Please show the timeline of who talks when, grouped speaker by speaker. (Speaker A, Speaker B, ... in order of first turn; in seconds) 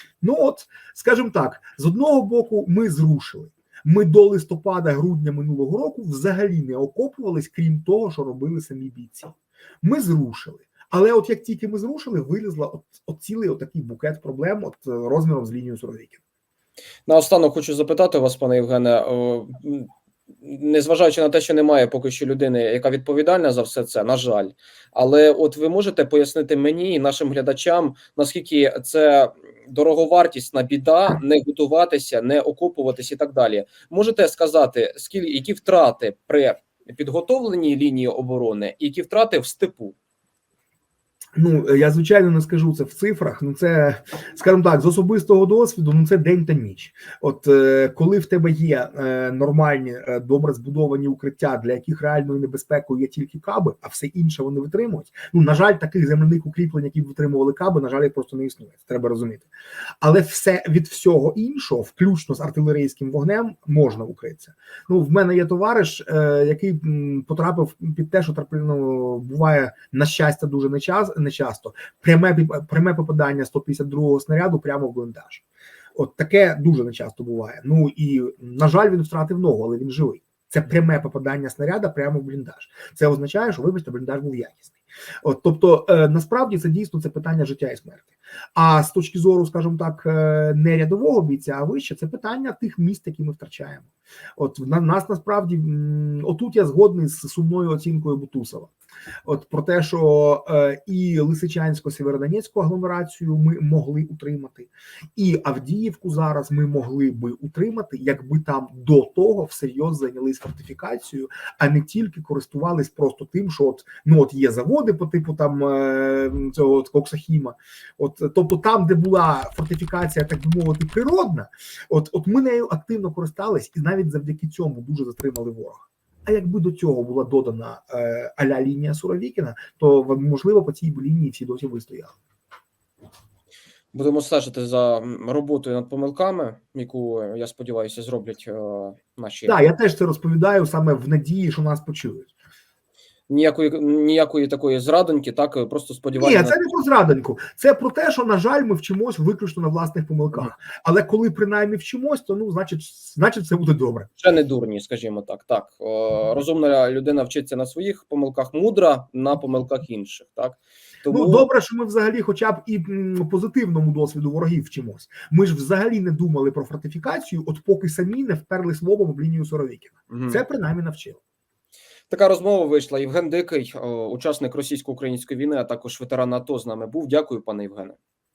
Speaker A: 0.2-16.2, 41.4-59.5, 60.0-75.4, 75.9-98.7, 99.2-132.1, 139.4-142.3, 146.1-154.1, 161.1-171.2
Speaker B: 17.1-19.9, 20.4-40.0, 133.9-139.6, 143.3-146.6, 154.2-161.5, 170.1-170.4, 172.1-178.0